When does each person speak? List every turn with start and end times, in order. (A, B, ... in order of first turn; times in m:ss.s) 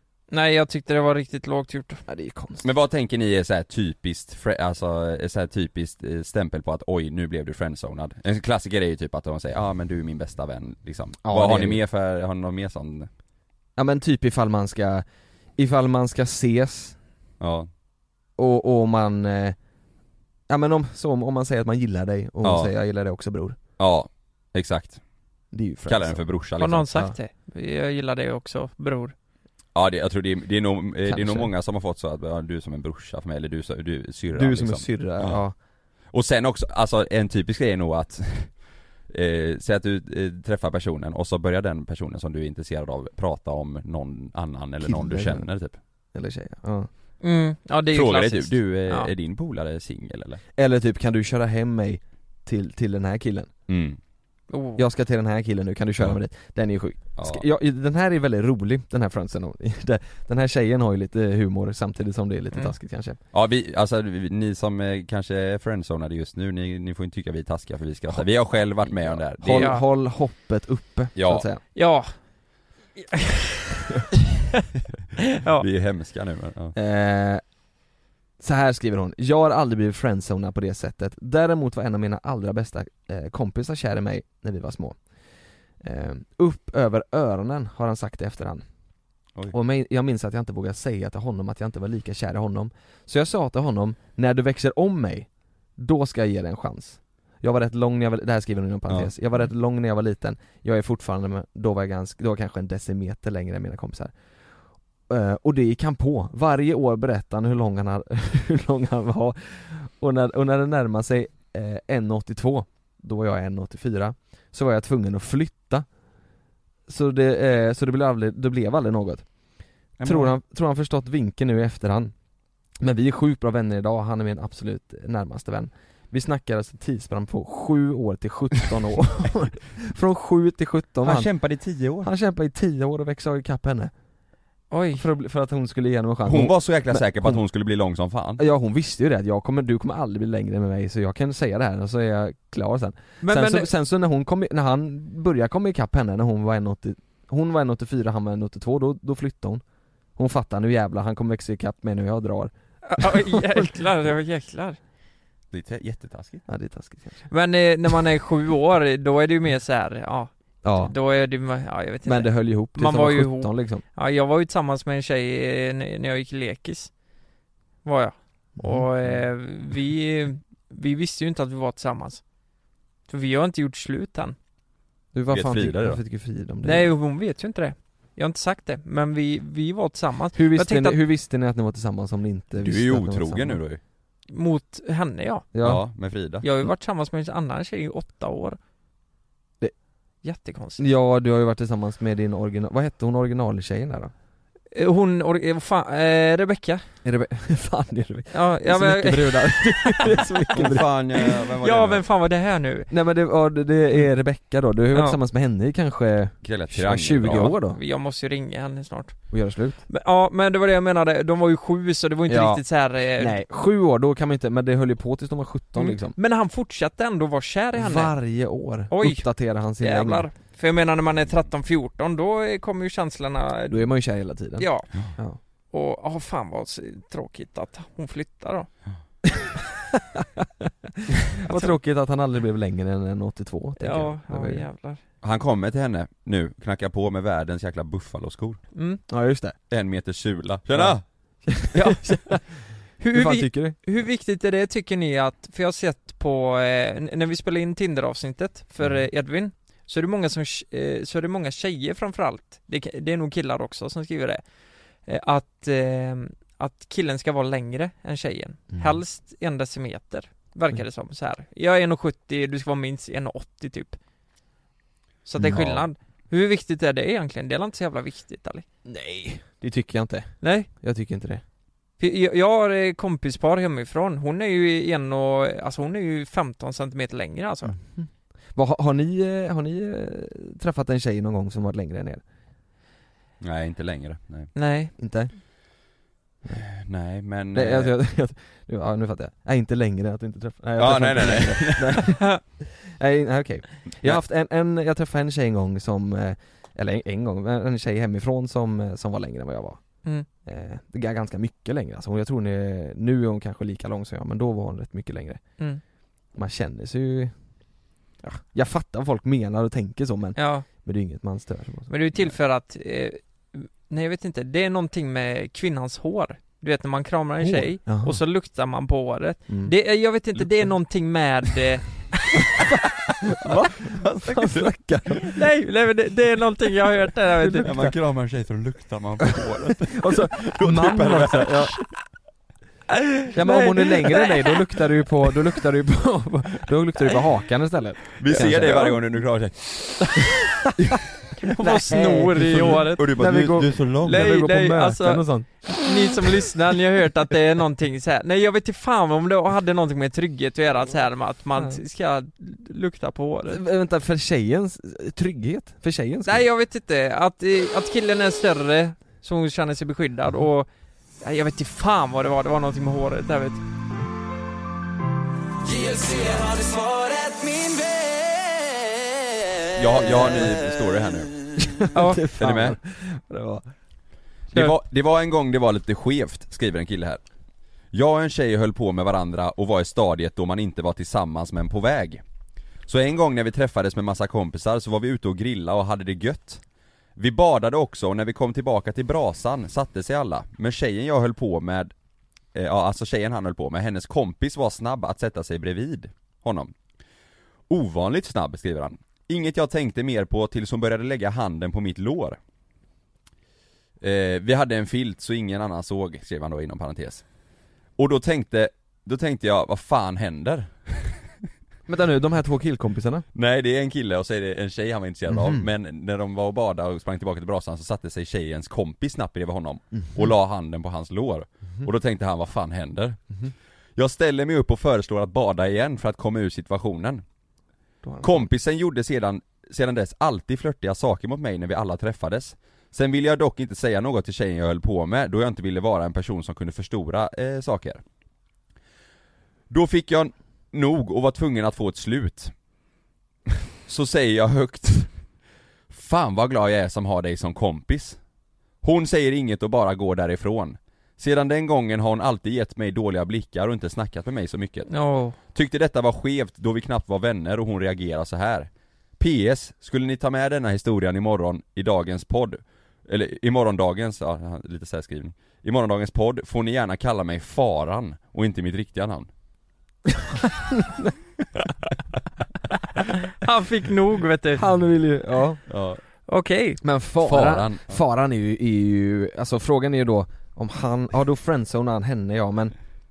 0:00.3-0:02.0 A
0:02.1-0:02.6 B
0:02.6-0:13.1 C
0:11.2-0:11.8 B
0:13.8-0:15.0 B
0:15.6-0:17.0 B
0:17.4-0:17.7 C
0:18.4-0:19.6 B
0:20.5-0:23.6 B
0:22.4-0:22.7 C
0:23.8-0:25.0 C
0:25.5-0:26.2 B
0:25.9-0:27.0 C
0:26.6-0:29.1 A
0:29.7-0:35.4 C
0:31.0-0:31.5 B
0:34.3-0:35.5 B
0:36.1-0:38.6 C
0:39.1-0:45.8 C
0:44.8-0:45.5 B
0:46.1-0:46.9 B
0:47.2-0:49.1 A
0:47.9-0:50.4 C
0:50.6-0:53.5 B
0:53.7-0:54.0 C
0:54.5-0:54.8 A
0:54.8-1:03.2 B
0:57.2-0:57.4 C
1:03.3-1:09.8 C
1:08.1-1:11.6 B
1:09.5-1:09.8 A
1:11.2-1:11.4 C
1:11.7-1:12.2 A
1:13.0-1:13.2 A
1:15.6-1:16.8 C
1:16.7-1:17.4 B
1:18.4-1:25.0 B
1:25.8-1:28.6 B
1:29.5-1:44.1 B
1:45.1-1:55.9 B
1:56.9-1:59.3 B
2:00.0-2:00.3 C
2:00.0-2:02.1 B
2:02.8-2:11.3 B
2:11.0-2:12.1 C
2:12.0-2:13.9 B
2:14.7-2:15.0 A
2:14.9-2:17.4 B
2:16.2-2:18.4 C
2:18.4-2:29.6 B
2:23.2-2:23.7 A
2:30.2-2:33.7 B
2:32.8-2:34.8 A
2:35.5-2:36.4 C
2:36.5-2:37.3 B
2:37.3-2:46.9 A
2:40.6-2:40.9 B
2:42.0-2:43.8 B
2:47.8-2:52.2 A
2:48.6-2:49.2 B
2:53.1-2:54.4 A
2:55.1-2:56.9 B
2:55.3-2:56.0 C
2:56.6-3:01.0 A
3:00.3-3:03.6 B
3:02.6-3:03.8 C
3:04.3-3:05.5 A
3:05.5-3:05.8 B
3:05.6-3:06.5 C
3:06.4-3:08.6 A
3:10.2-3:10.8 A
3:10.8-3:14.1 B
3:14.7-3:16.8 A
3:17.0-3:21.3 B
3:18.3-3:20.1 A
3:20.5-3:22.0 C
3:21.6-3:22.9 A
3:22.9-3:27.8 B
3:24.9-3:25.2 A
3:26.4-3:27.6 C
3:27.7-3:29.3 A
3:29.3-3:29.8 B
3:29.9-3:33.4 A
3:32.3-3:36.2 B
3:35.8-3:38.1 A
3:37.8-3:40.3 B
3:38.9-3:43.8 A
3:43.7-3:45.4 B
3:44.6-3:44.9 A
3:45.7-3:48.7 A
3:51.4-3:54.6 B
3:53.8-3:55.0 A
3:55.2-3:58.6 C
3:58.7-3:59.0 A
3:59.1-3:59.6 B
3:59.7-4:01.0 C
4:00.7-4:02.4 B
4:01.7-4:02.4 A
4:03.0-4:14.4 A
4:03.1-4:03.8 B
4:15.0-4:24.0 A
4:18.7-4:19.0 B
4:25.2-4:28.6 A
4:25.4-4:25.7 B
4:25.4-4:25.8 C
4:28.8-4:31.4 B
4:30.4-4:30.7 A
4:32.0-4:37.7 A
4:37.6-4:42.2 B
4:43.4-4:44.5 C
4:44.5-4:44.9 A
4:45.0-4:45.3 B
4:46.6-4:47.9 C
4:47.5-5:05.4 B
4:50.8-4:52.1 C
5:06.3-5:07.3 B
5:08.4-5:12.3 B
5:10.4-5:10.6 A
5:11.9-5:22.5 A
5:17.4-5:18.2 B
5:19.5-5:19.7 B
5:23.2-5:25.4 B
5:23.8-5:24.7 C
5:25.3-5:27.7 A
5:27.4-5:28.0 B
5:27.6-5:31.8 C
5:29.3-5:31.7 B
5:33.2-5:34.2 A
5:33.3-5:39.0 B
5:38.2-5:40.2 C
5:41.4-5:43.1 A
5:41.6-5:45.8 B
5:42.5-5:44.3 C
5:44.0-5:53.6 A
5:51.5-5:51.8 B
5:53.5-5:56.4 B
5:56.2-6:00.7 A
6:01.2-6:03.6 A
6:05.6-6:08.7 D
6:09.7-6:11.4 C
6:10.0-6:10.5 B
6:11.6-6:13.7 B
6:11.9-6:12.2 A
6:12.4-6:12.8 C
6:14.5-6:17.2 C
6:17.9-6:22.2 C
6:22.9-6:26.6 C
6:27.2-6:31.9 C
6:32.5-6:36.7 C
6:37.7-6:42.4 C
6:44.0-6:47.2 C
6:48.0-6:51.2 C
6:51.9-6:53.2 B
6:53.3-7:03.2 C
6:55.3-6:55.7 B
7:04.0-7:07.2 C
7:08.0-7:08.5 B
7:08.2-7:18.0 C
7:19.7-7:22.5 C
7:23.8-7:25.1 C
7:25.9-7:28.2 C
7:28.8-7:34.9 C
7:34.9-7:35.4 A
7:35.4-7:49.3 C
7:50.8-7:51.1 B
7:53.4-7:54.6 A
7:54.6-7:55.6 B
7:55.7-7:56.0 C
7:56.3-7:56.8 A
7:56.8-8:02.8 B
7:57.2-7:58.0 C